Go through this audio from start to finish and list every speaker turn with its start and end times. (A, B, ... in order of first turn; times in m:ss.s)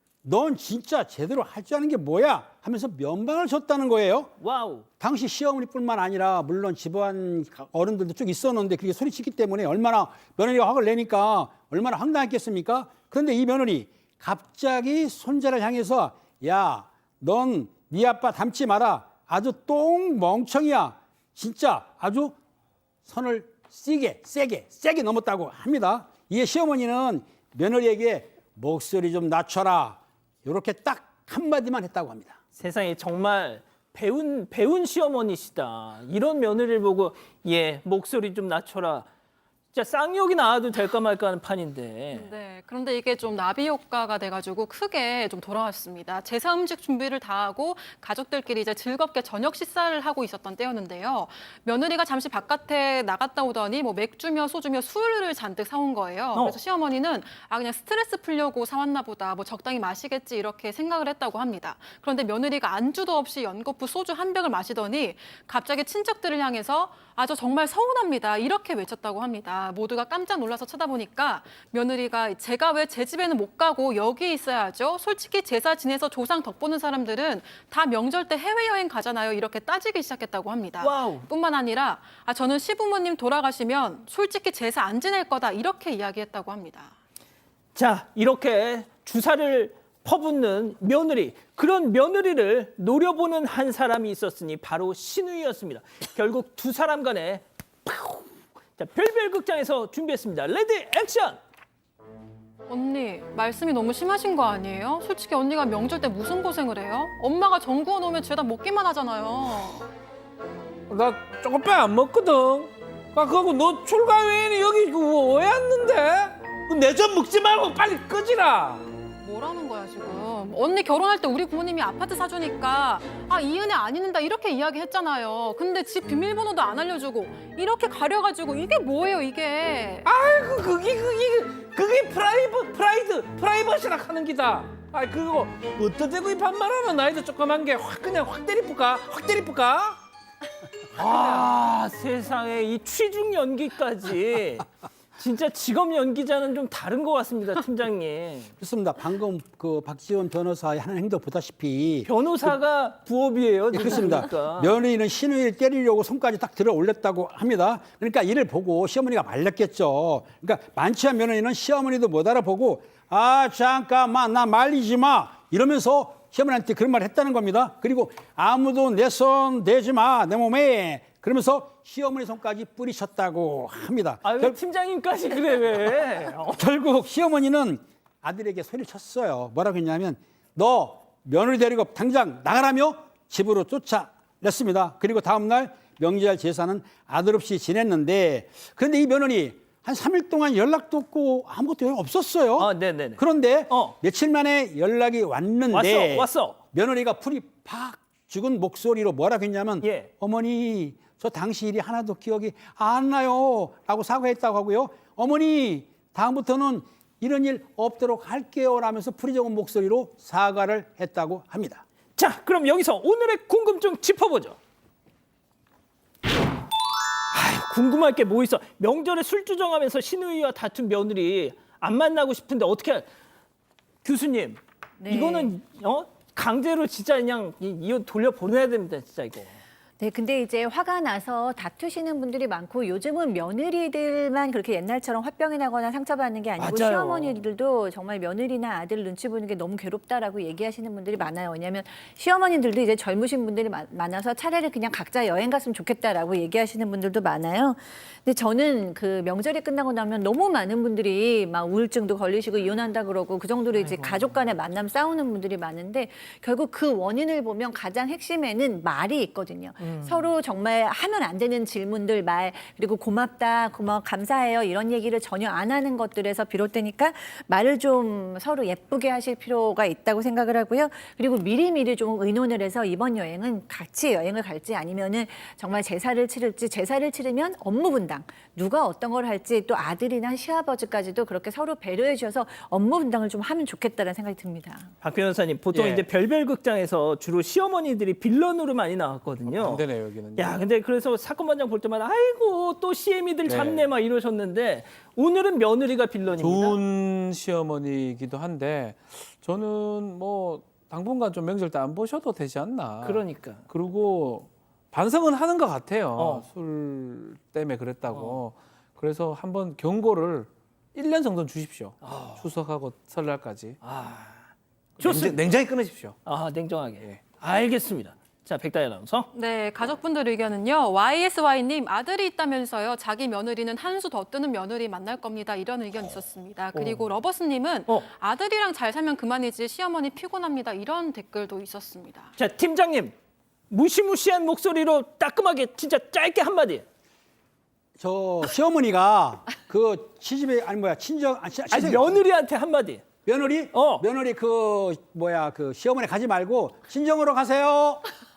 0:00.2-0:04.3 A
0:04.4-0:04.9 B
0:05.0-0:22.4 A
0:23.0-0:32.4 A
0:32.6-0:39.1 B
0:39.7-0:42.3 B
0:42.1-1:26.9 C
1:20.8-1:21.3 B
1:27.8-1:41.4 B
1:42.7-1:49.9 C
1:50.9-1:58.9 D
1:59.2-2:10.1 C
2:10.0-2:20.0 D
2:20.9-2:28.5 B
2:21.0-2:21.5 D
2:28.6-2:32.1 A
2:32.1-2:34.8 B
2:33.7-2:54.6 A
2:54.2-2:56.6 B
2:56.5-3:31.8 A
3:12.6-3:14.0 B
3:15.7-3:16.6 B
3:19.8-3:20.1 B
3:32.2-3:34.6 B
3:37.3-3:43.1 B
3:44.0-3:49.6 B
3:45.0-3:45.6 E
3:50.0-4:44.9 E
3:56.6-3:57.4 B
4:13.7-4:14.4 B
4:19.8-4:20.3 B
4:45.0-4:49.8 B
4:45.7-4:46.1 D
4:49.4-4:50.6 D
4:50.4-4:56.8 B
4:53.4-4:53.9 D
4:56.4-5:13.8 D
5:03.0-5:03.6 B
5:06.2-5:06.5 B
5:08.1-5:08.4 B
5:12.0-5:12.4 B
5:13.8-5:15.4 B
5:15.0-5:16.2 D
5:16.2-5:19.3 B
5:19.3-5:32.3 C
5:26.7-5:27.1 B
5:32.4-5:33.2 B
5:33.7-5:36.8 B
5:38.0-5:42.2 A
5:41.7-5:43.0 B
5:43.3-5:48.1 A
5:43.7-5:44.0 B